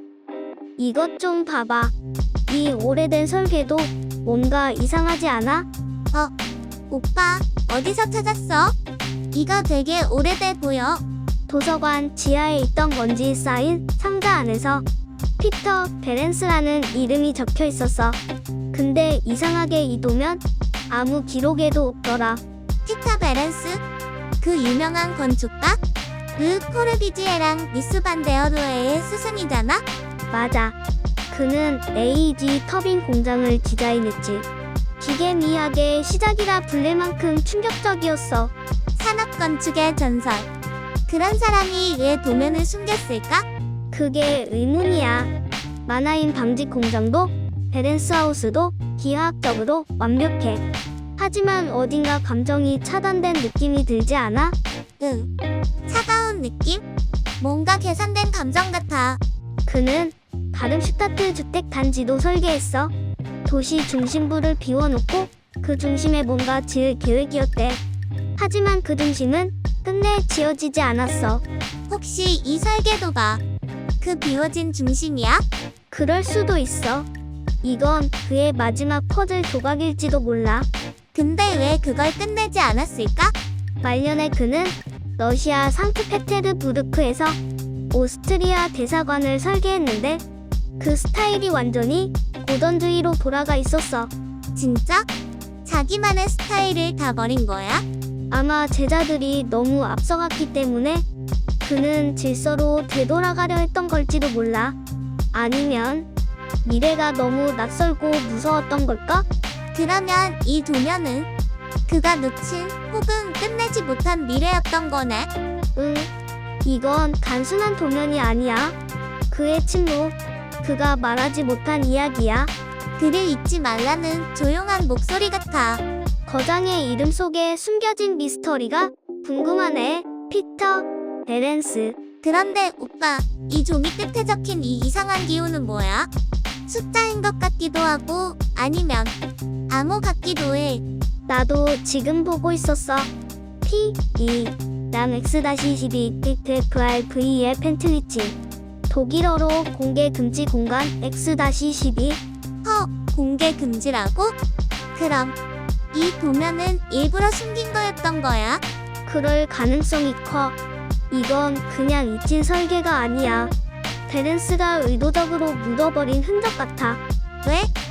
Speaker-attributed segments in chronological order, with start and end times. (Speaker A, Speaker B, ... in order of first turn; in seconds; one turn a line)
Speaker A: 0.8-1.9
Speaker A: 2.5-5.7
Speaker B: 6.9-8.8
Speaker B: 9.3-11.0
Speaker A: 11.5-14.8
Speaker A: 15.4-18.2
Speaker A: 18.7-22.4
Speaker B: 22.9-23.8
Speaker B: 24.4-25.8
Speaker B: 26.4-29.8
Speaker A: 30.3-30.8
Speaker A: 31.3-34.5
Speaker A: 35.0-38.5
Speaker B: 39.0-40.5
Speaker B: 41.1-43.5
Speaker A: 43.9-45.3
Speaker A: 45.9-50.6
Speaker A: 51.2-54.5
Speaker B: 55.0-55.3
Speaker B: 55.9-56.8
Speaker B: 57.4-59.2
Speaker A: 59.6-62.9
Speaker A: 63.5-67.8
Speaker A: 68.4-71.4
Speaker B: 71.9-73.4
Speaker B: 74.0-75.4
Speaker A: 75.9-77.1
Speaker A: 77.6-80.7
Speaker B: 81.1-83.3
Speaker A: 83.8-87.4
Speaker A: 87.9-90.2
Speaker A: 90.8-94.1
Speaker B: 94.5-95.0
Speaker B: 95.6-97.8
Speaker A: 98.3-101.0
Speaker A: 101.6-104.8
Speaker A: 105.3-106.1
Speaker A: 106.6-109.2
Speaker B: 109.7-111.3
Speaker B: 111.9-115.3
Speaker A: 115.8-116.1
Speaker A: 116.6-118.8
Speaker A: 119.3-122.5
Speaker B: 123.0-125.8
Speaker A: 126.2-132.0
Speaker B: 132.2-136.1
Speaker B: 136.7-139.1
Speaker B: 139.7-140.8
Speaker A: 141.3-143.1
Speaker A: 143.6-148.3
Speaker A: 148.9-152.2
Speaker B: 152.6-154.3
Speaker B: 154.9-155.3
Speaker B: 155.9-158.6
Speaker A: 159.1-160.6
Speaker A: 161.1-163.5
Speaker A: 164.1-167.0
Speaker B: 167.4-167.7